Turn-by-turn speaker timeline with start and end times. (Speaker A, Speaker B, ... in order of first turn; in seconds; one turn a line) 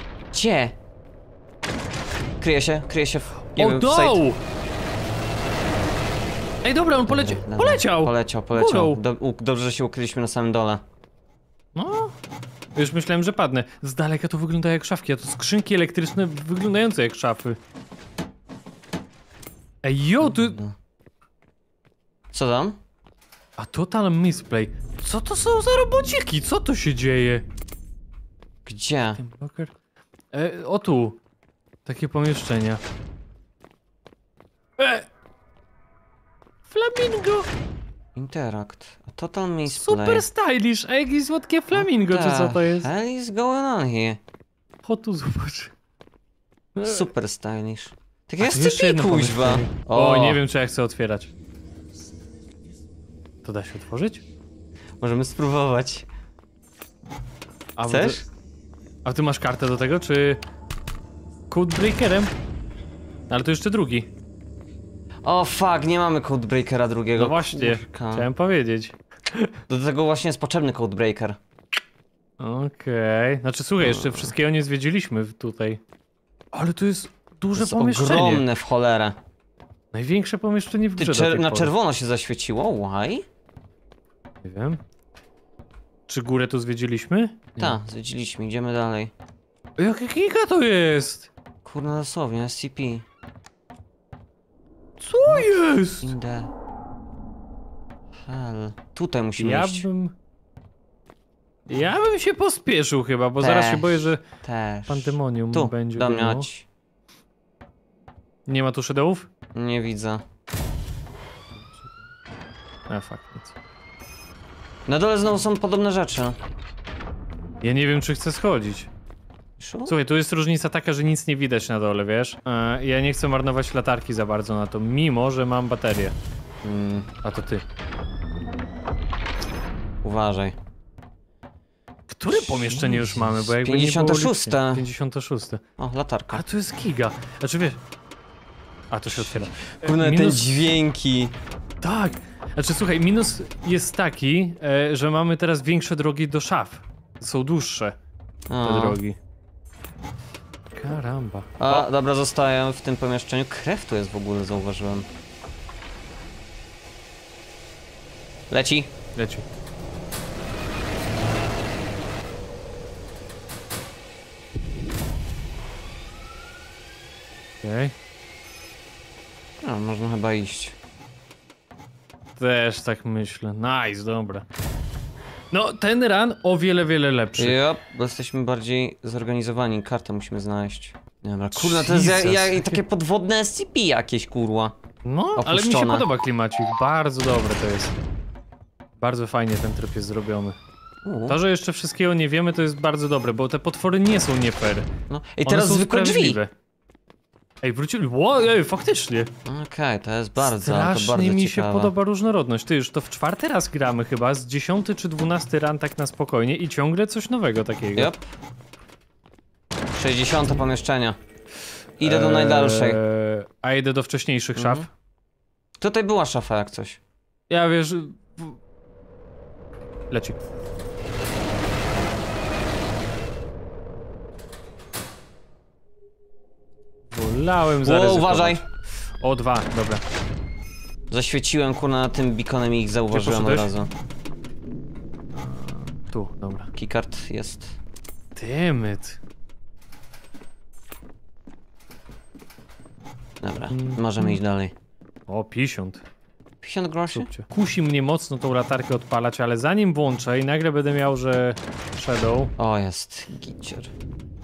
Speaker A: 0.3-0.7
Speaker A: 2.4-4.2
Speaker B: 3.5-4.4
Speaker B: 6.6-9.0
Speaker A: 7.1-10.8
Speaker B: 11.7-12.1
Speaker B: 12.8-17.6
Speaker B: 19.8-20.6
Speaker A: 20.2-20.7
Speaker A: 22.3-22.8
Speaker B: 23.6-27.4
Speaker A: 28.6-29.2
Speaker B: 29.2-29.7
Speaker B: 30.3-31.2
Speaker B: 31.8-32.8
Speaker B: 34.8-35.0
Speaker B: 36.7-37.5
Speaker A: 38.1-40.2
Speaker B: 39.7-42.9
Speaker A: 41.7-44.2
Speaker B: 44.8-45.7
Speaker B: 46.8-47.1
Speaker A: 46.8-50.4
Speaker B: 48.4-51.3
Speaker B: 53.4-54.2
Speaker A: 55.0-56.1
Speaker B: 57.8-58.3
Speaker A: 57.9-58.2
Speaker B: 59.0-60.4
Speaker B: 61.5-62.3
Speaker B: 63.3-64.1
Speaker A: 65.2-68.3
Speaker B: 67.2-69.5
Speaker A: 69.7-71.4
Speaker B: 72.4-75.8
Speaker A: 73.8-74.3
Speaker B: 76.5-78.4
Speaker A: 77.5-79.2
Speaker B: 79.9-81.7
Speaker A: 81.0-83.2
Speaker B: 84.4-84.8
Speaker B: 86.1-87.8
Speaker A: 87.6-89.1
Speaker B: 89.8-91.3
Speaker A: 91.6-93.0
Speaker B: 95.0-96.1
Speaker A: 95.2-96.5
Speaker A: 98.2-99.9
Speaker B: 99.4-100.1
Speaker B: 101.7-104.2
Speaker A: 103.4-106.7
Speaker B: 104.9-106.4
Speaker B: 108.5-109.3
Speaker A: 109.5-110.2
Speaker B: 112.9-113.5
Speaker A: 114.9-116.4
Speaker B: 117.6-118.9
Speaker A: 119.6-119.9
Speaker B: 119.9-126.2
Speaker A: 126.6-127.1
Speaker B: 127.2-127.6
Speaker A: 130.0-130.6
Speaker B: 132.1-135.6
Speaker A: 132.4-134.8
Speaker A: 135.8-136.4
Speaker B: 136.3-137.8
Speaker B: 138.9-140.5
Speaker A: 139.1-141.3
Speaker B: 141.8-147.9
Speaker A: 148.5-149.0
Speaker B: 148.6-149.2
Speaker B: 150.7-151.8
Speaker A: 151.6-155.1
Speaker A: 158.5-158.9
Speaker B: 159.2-159.4
Speaker B: 167.6-167.9
Speaker A: 169.6-170.8
Speaker B: 172.4-174.4
Speaker B: 175.5-177.6
Speaker A: 177.4-184.8
Speaker B: 181.5-182.8
Speaker B: 185.0-187.9
Speaker A: 185.3-186.1
Speaker B: 189.0-190.6
Speaker A: 191.0-191.4
Speaker B: 191.3-194.9
Speaker A: 195.1-196.4
Speaker B: 195.4-196.5
Speaker B: 197.6-199.3
Speaker A: 199.4-201.9
Speaker B: 200.4-208.1
Speaker A: 207.9-208.3
Speaker A: 209.9-211.2
Speaker A: 212.0-213.0
Speaker B: 212.0-214.8
Speaker A: 214.6-214.8
Speaker A: 215.8-217.0
Speaker B: 217.5-218.6
Speaker B: 220.1-220.4
Speaker B: 227.1-228.7
Speaker A: 227.8-228.6
Speaker B: 229.2-230.0
Speaker A: 231.1-233.9
Speaker B: 233.1-233.7
Speaker B: 235.3-236.7
Speaker A: 236.7-237.7
Speaker B: 238.3-239.2
Speaker A: 243.4-244.7
Speaker B: 243.7-244.4
Speaker B: 245.3-246.0
Speaker A: 246.6-247.3
Speaker B: 247.1-252.5
Speaker A: 252.6-253.9